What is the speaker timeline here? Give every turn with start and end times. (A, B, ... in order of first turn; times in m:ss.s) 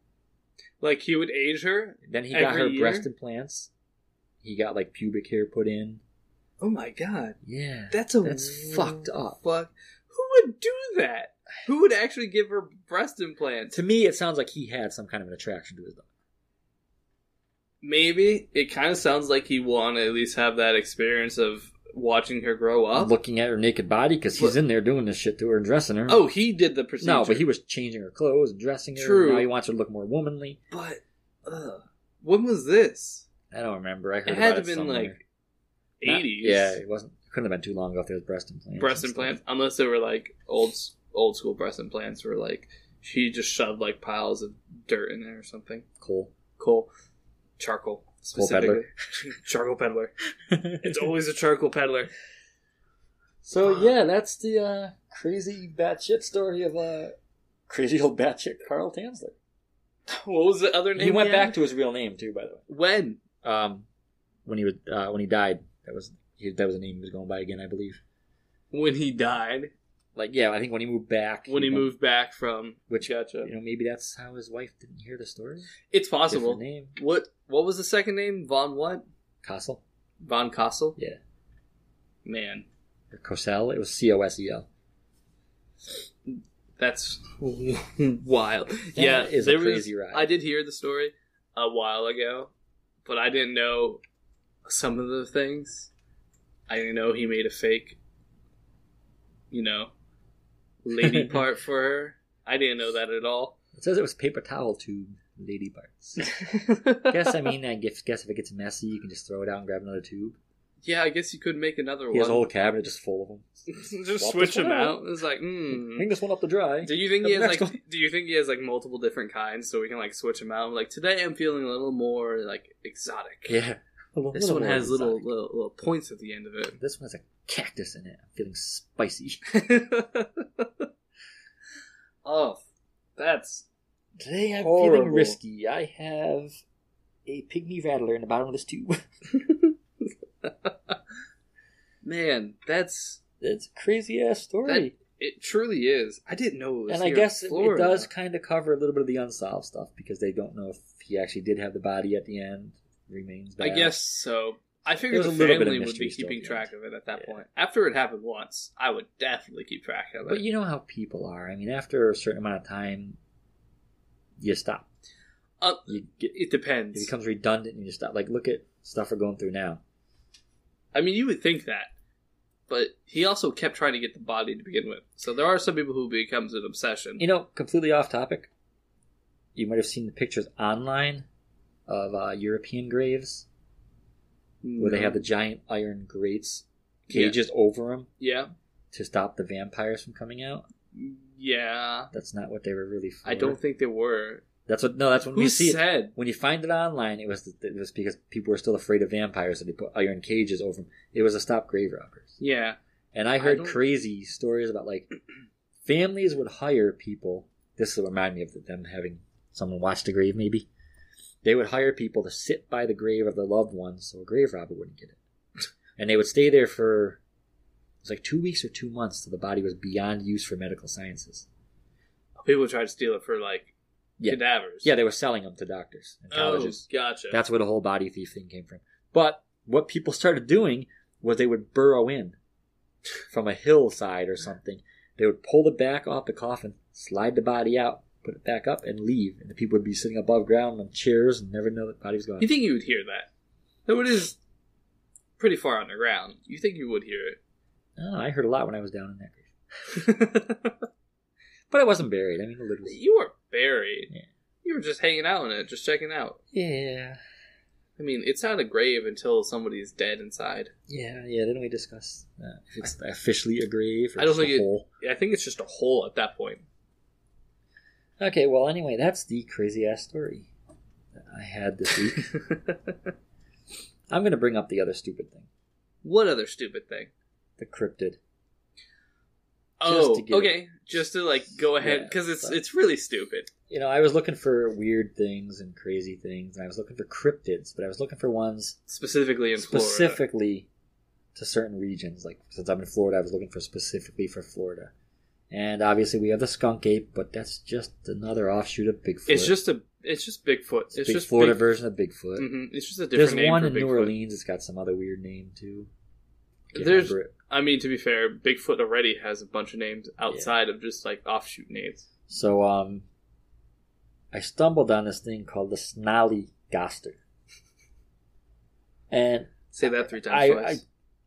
0:00.8-0:03.1 A
0:02.0-0:03.7 B
0:04.4-0:06.0 B
0:06.6-0:07.4 A
0:07.4-0:09.4 B
0:07.9-0:13.8 A
0:13.7-0:16.0 B
0:17.8-0:23.1 A
0:22.9-0:26.2 B
0:26.1-0:27.5 A
0:27.0-0:30.6 B
0:29.0-0:29.5 A
0:30.7-0:33.2 A
0:33.5-0:35.2 B
0:34.2-0:35.2 A
0:36.0-0:36.8 A
0:36.0-0:39.4 B
0:38.8-0:45.8 A
0:46.0-0:46.3 B
0:46.6-0:46.9 A
0:47.6-0:50.1 A
0:48.3-0:48.8 B
0:50.5-0:51.1 B
0:50.8-0:52.1 A
0:53.4-0:57.2 B
0:57.7-0:59.4 B
1:00.1-1:01.6 A
1:01.0-1:02.6 B
1:02.7-1:03.2 A
1:03.4-1:03.9 B
1:04.4-1:08.0 B
1:08.7-1:09.7 A
1:10.2-1:11.9 B
1:11.5-1:13.5 A
1:12.9-1:15.7 B
1:15.9-1:19.0 A
1:16.3-1:17.0 B
1:19.4-1:19.8 B
1:20.2-1:21.0 A
1:22.2-1:22.6 A
1:23.1-1:24.7 B
1:26.3-1:32.5 A
1:29.0-1:30.3 B
1:33.0-1:34.0 A
1:34.6-1:35.9 A
1:36.7-1:38.0 A
1:39.5-1:39.9 A
1:40.8-1:43.5 A
1:41.0-1:41.4 B
1:43.7-1:46.4 B
1:46.2-1:47.3 A
1:47.0-1:50.4 B
1:50.8-1:52.5 A
1:52.1-1:55.0 B
1:53.7-1:56.1 A
1:55.7-1:57.8 B
1:56.8-2:03.6 A
2:03.5-2:05.3 B
2:04.3-2:06.8 A
2:06.8-2:09.4 B
2:09.5-2:10.9 A
2:12.2-2:12.6 A
2:13.2-2:13.6 A
2:14.2-2:16.6 B
2:14.5-2:15.4 A
2:17.2-2:19.0 B
2:19.3-2:19.7 A
2:20.4-2:20.9 A
2:22.0-2:23.2 A
2:23.4-2:24.9 B
2:24.6-2:28.1 A
2:26.9-2:34.0 B
2:33.6-2:40.4 A
2:35.0-2:37.3 B
2:40.3-2:43.2 B
2:44.4-2:44.8 B
2:45.6-2:47.1 A
2:45.9-2:46.4 B
2:46.9-2:49.8 B
2:50.9-2:51.9 A
2:52.7-2:57.2 A
2:57.2-2:58.5 B
2:59.5-3:01.2 B
3:01.9-3:03.5 B
3:04.6-3:05.2 A
3:04.8-3:08.1 B
3:07.1-3:07.4 A
3:08.2-3:08.5 A
3:08.9-3:10.7 B
3:10.9-3:12.1 A
3:12.1-3:13.6 B
3:13.2-3:14.4 A
3:14.7-3:22.4 B
3:15.3-3:16.1 A
3:22.4-3:22.8 A
3:23.1-3:25.1 B
3:23.4-3:23.8 A
3:25.8-3:30.7 B
3:31.4-3:35.2 B
3:36.0-3:37.2 B
3:38.0-3:41.5 B
3:42.4-3:43.7 A
3:44.2-3:52.4 B
3:44.2-3:44.9 A
3:46.3-3:47.4 A
3:53.3-4:02.5 B
4:02.4-4:03.3 A
4:03.9-4:04.4 A
4:05.4-4:07.4 A
4:08.0-4:09.5 B
4:09.9-4:10.7 A
4:11.7-4:13.0 B
4:12.8-4:14.1 A
4:14.6-4:16.4 A
4:16.5-4:17.2 B
4:18.0-4:20.7 A
4:20.9-4:24.8 B
4:24.2-4:26.6 A
4:28.2-4:30.5 B
4:31.1-4:32.3 B
4:32.2-4:33.0 A
4:34.1-4:35.5 B
4:36.0-4:37.1 A
4:37.6-4:38.2 B
4:39.8-4:43.5 A
4:39.8-4:40.6 B
4:41.8-4:42.6 B
4:43.7-4:48.8 B
4:48.9-4:50.2 A
4:49.6-4:50.7 B
4:51.3-4:54.9 B
4:55.5-4:59.5 B
4:59.3-5:01.6 A
5:00.9-5:02.5 B
5:02.4-5:04.1 A
5:03.1-5:05.9 B
5:06.7-5:07.3 B
5:06.7-5:12.0 A
5:12.3-5:13.0 B
5:14.3-5:17.2 B
5:19.1-5:20.8 B
5:19.7-5:20.8 A